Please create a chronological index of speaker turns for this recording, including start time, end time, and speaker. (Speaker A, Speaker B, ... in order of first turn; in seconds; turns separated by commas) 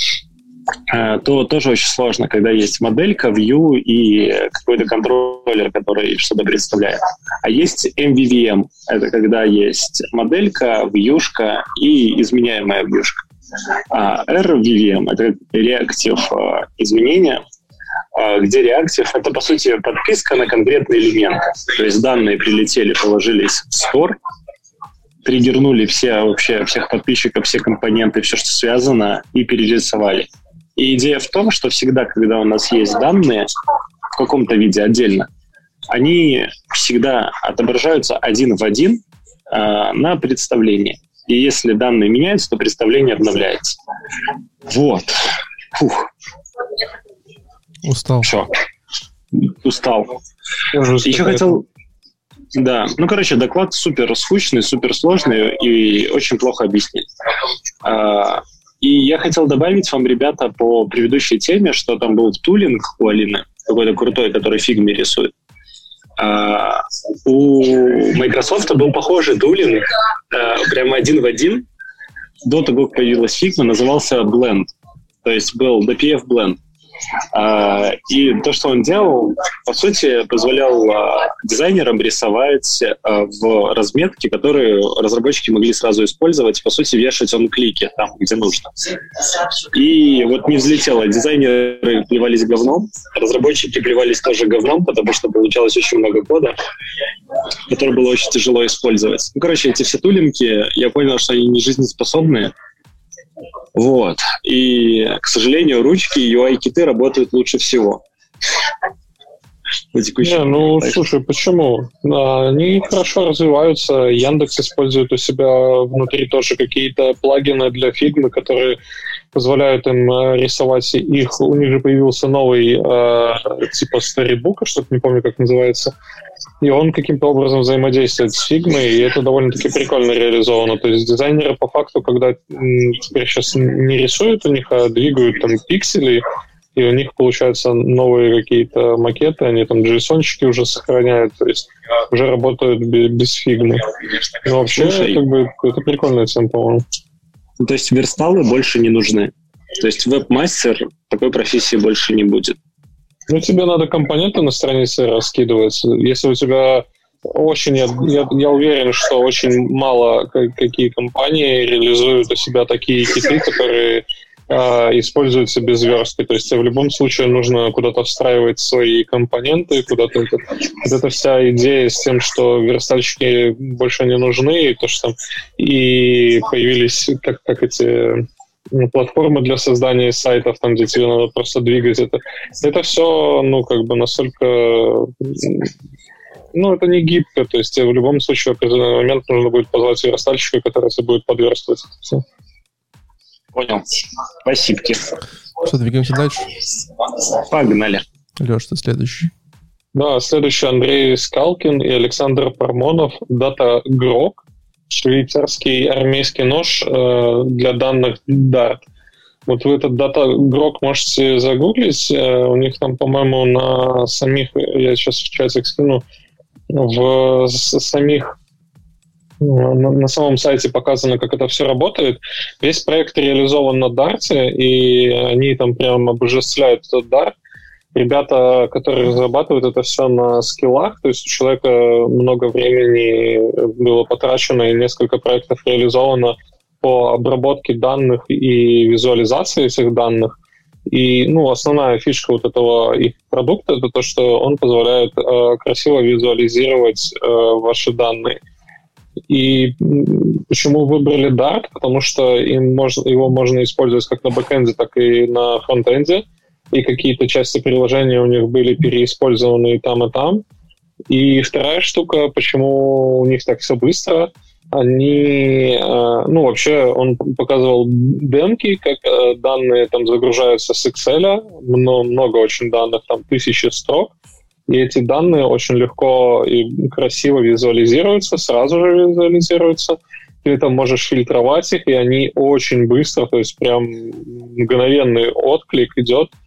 Speaker A: 0.9-13.2, Speaker A: 13.9-17.4, Speaker A: 18.1-24.2, Speaker A: 25.2-33.5, Speaker A: 34.1-35.3, Speaker A: 35.9-43.8, Speaker A: 44.6-46.1, Speaker B: 47.8-48.3, Speaker A: 48.2-48.5, Speaker A: 49.3-50.1, Speaker C: 50.7-51.6, Speaker A: 51.0-51.6, Speaker A: 52.5-57.0, Speaker A: 57.8-65.3, Speaker A: 66.2-71.7, Speaker A: 72.5-74.7, Speaker A: 75.2-76.6, Speaker A: 77.3-96.5, Speaker A: 97.7-102.5, Speaker A: 103.7-108.0, Speaker A: 109.9-111.0, Speaker C: 110.2-118.8, Speaker C: 119.3-125.9, Speaker C: 126.6-136.2, Speaker C: 136.7-143.9, Speaker C: 144.4-146.8, Speaker A: 144.7-145.2, Speaker A: 147.6-152.6, Speaker C: 153.3-185.7, Speaker C: 186.5-192.2, Speaker A: 193.5-193.8, Speaker A: 194.4-195.1, Speaker B: 195.6-196.5, Speaker A: 197.3-198.0, Speaker B: 198.4-199.3, Speaker C: 199.9-208.8, Speaker C: 209.5-216.0, Speaker C: 216.7-218.3, Speaker C: 219.4-227.3, Speaker C: 227.9-240.3, Speaker C: 240.9-248.4, Speaker C: 249.3-260.4, Speaker C: 261.1-274.1, Speaker C: 274.7-286.3